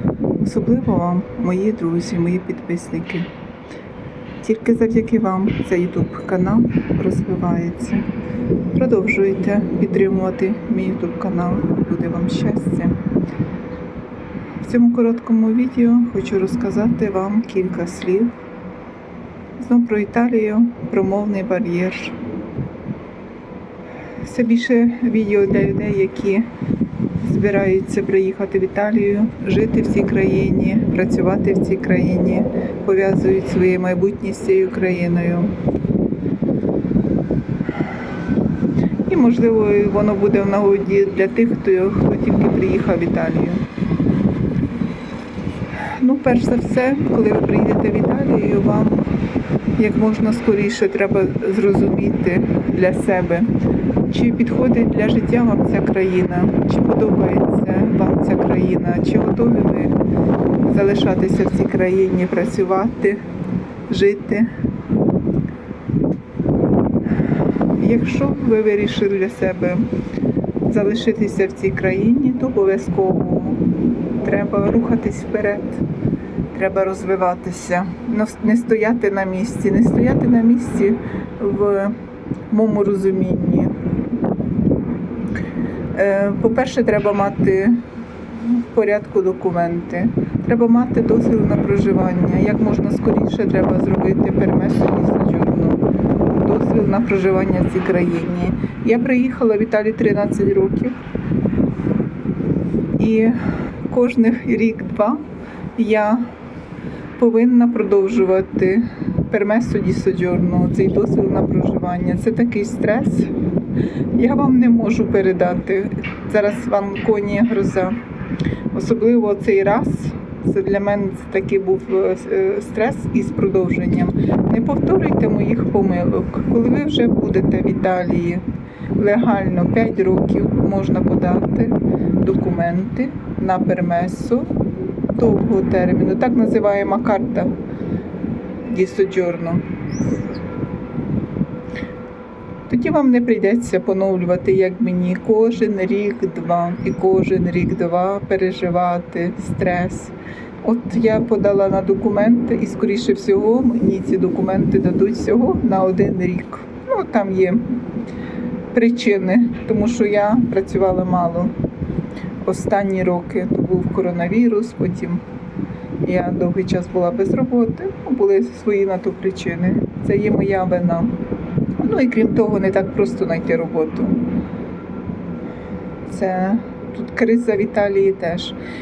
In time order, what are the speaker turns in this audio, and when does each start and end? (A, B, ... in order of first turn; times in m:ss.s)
0:00.4-0:03.3 A
0:04.4-0:08.1 A
0:08.7-0:13.0 A
0:14.6-0:18.3 A
0:19.6-0:22.2 A
0:24.2-0:26.5 A
0:27.2-0:35.5 A
0:39.1-0:43.6 A
0:45.9-0:49.1 A
0:49.8-0:53.5 A
0:54.1-1:00.0 A
1:00.7-1:03.2 A
1:03.9-1:04.5 A
1:07.8-1:09.9 A
1:10.7-1:13.7 A
1:14.2-1:15.8 A
1:16.5-1:22.0 A
1:22.5-1:23.8 A
1:25.9-1:27.8 A
1:28.4-1:41.0 A
1:43.0-1:43.4 A
1:43.9-1:45.2 A
1:45.8-1:46.3 A
1:47.2-1:53.3 A
1:54.1-1:58.0 A
1:58.7-2:08.4 A
2:09.0-2:14.5 A
2:15.1-2:17.5 A
2:18.7-2:19.6 A
2:22.7-2:37.8 A
2:38.7-2:41.5 A
2:42.4-2:45.2 A
2:46.0-2:51.2 A
2:51.8-2:54.2 A
2:56.1-2:58.6 A